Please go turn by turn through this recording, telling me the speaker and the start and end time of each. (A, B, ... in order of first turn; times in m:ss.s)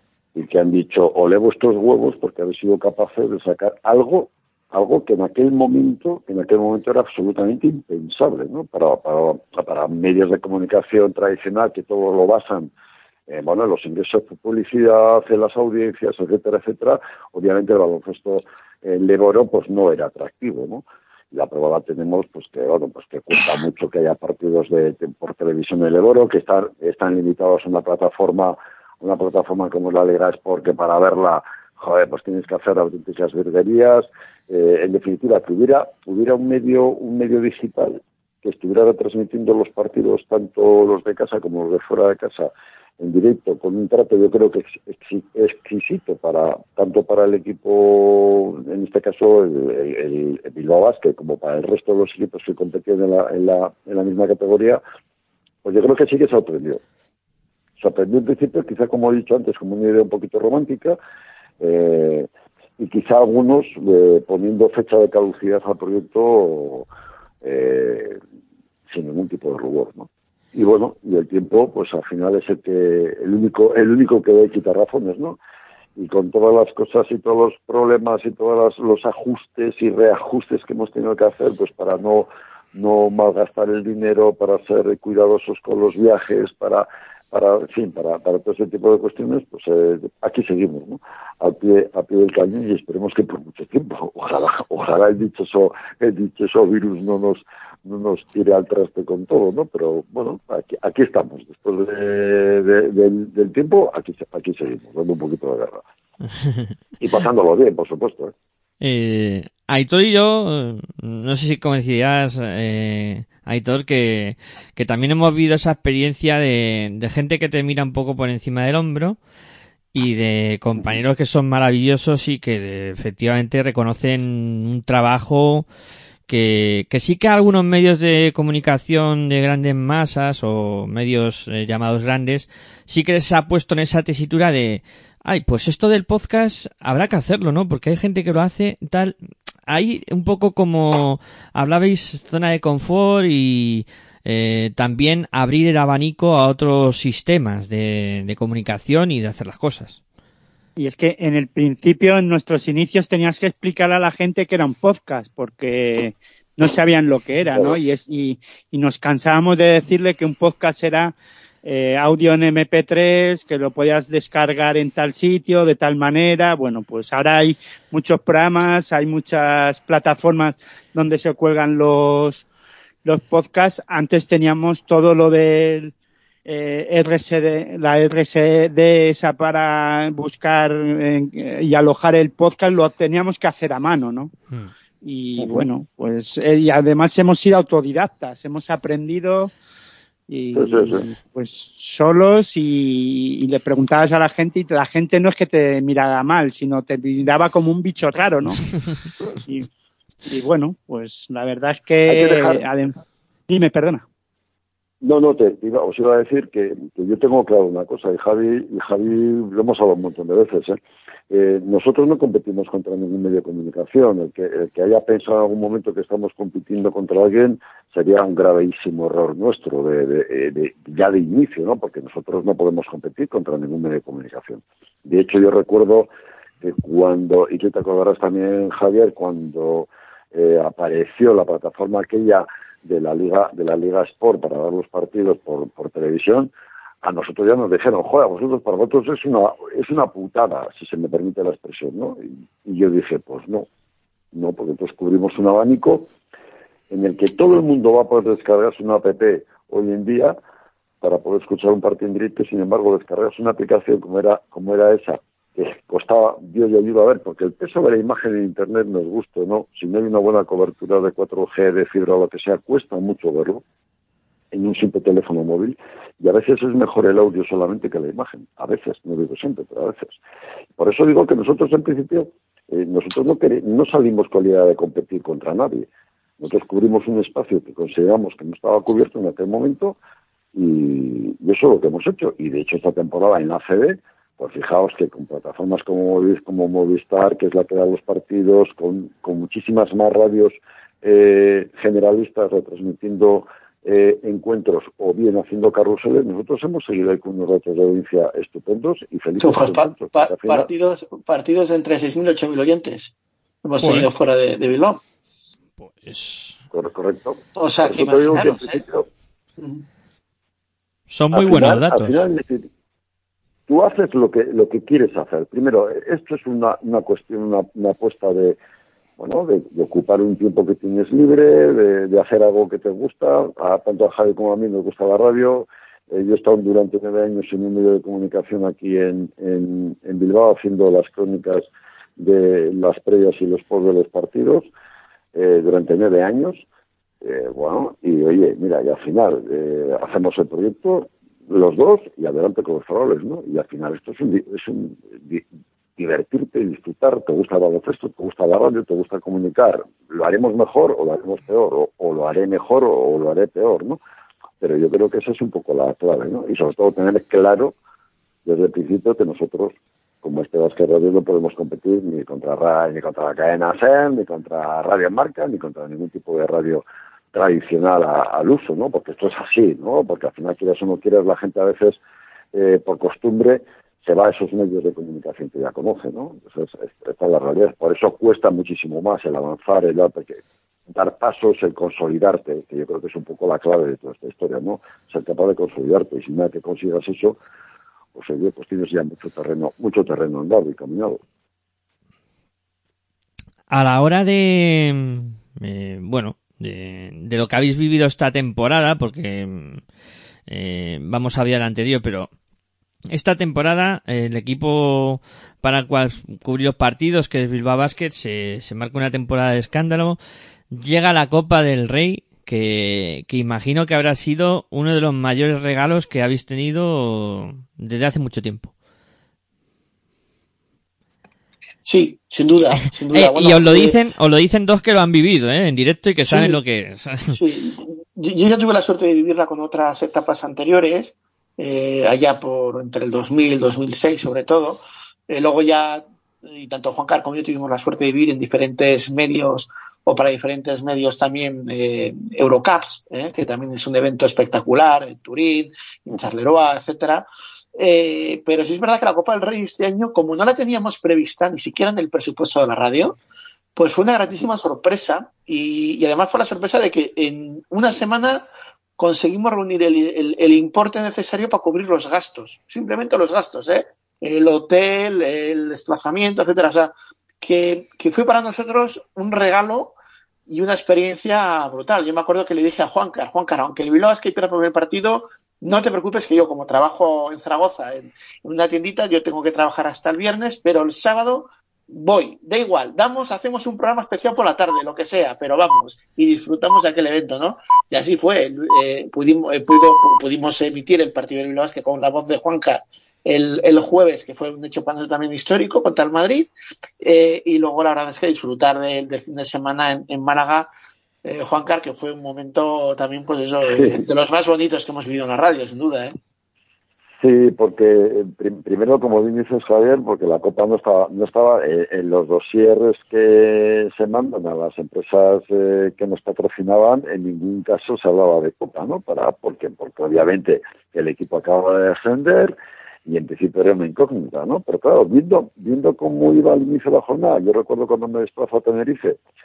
0:00.4-0:12.7 A
0:13.3-0:54.8 A
0:55.6-0:56.8 A
0:57.8-1:01.0 A
1:01.6-1:06.8 A
1:07.4-1:08.2 A
1:08.9-1:15.4 A
1:16.0-1:45.8 A
1:47.0-1:48.3 A
1:48.8-1:59.2 B
1:59.9-2:05.6 B
2:06.3-2:19.1 B
2:19.7-2:30.0 B
2:30.8-2:52.4 C
2:37.5-2:37.8 A
2:53.0-2:55.9 C
2:56.4-3:04.3 C
3:05.0-3:09.5 C
3:05.4-3:05.7 A
3:10.3-3:18.7 C
3:10.5-3:11.0 A
3:20.2-3:23.0 C
3:22.0-3:22.6 A
3:23.5-3:24.0 C
3:25.0-3:30.8 A
3:31.3-3:46.1 A
3:46.6-3:56.5 A
3:57.0-4:03.6 A
4:04.3-4:06.1 A
4:06.9-4:10.4 A
4:11.0-4:23.6 A
4:24.5-4:30.2 A
4:30.8-4:35.9 A
4:36.4-4:40.0 A
4:40.5-5:00.7 A
4:59.4-5:05.0 D
5:03.8-5:04.1 B
5:05.8-5:06.6 B
5:06.7-5:09.1 A
5:07.6-5:08.8 D
5:09.6-5:09.8 D
5:11.1-5:12.2 B
5:11.3-5:12.7 A
5:13.7-5:18.6 A
5:19.2-5:34.7 A
5:35.3-5:36.6 A
5:37.2-5:45.4 A
5:46.0-5:54.0 A
5:54.6-5:57.7 A
5:58.4-6:12.0 A
6:12.5-6:27.4 A
6:28.1-6:31.2 A
6:33.7-6:39.8 B
6:40.5-6:42.3 B
6:43.1-6:50.2 B
6:50.7-6:58.7 B
7:01.8-7:04.0 D
7:03.1-7:07.4 B
7:06.2-7:06.6 D
7:07.3-7:33.2 D
7:33.8-7:38.5 D
7:39.0-8:20.7 D
8:21.2-8:26.2 D
8:23.7-8:24.0 A
8:27.2-8:42.5 A
8:43.0-8:49.2 A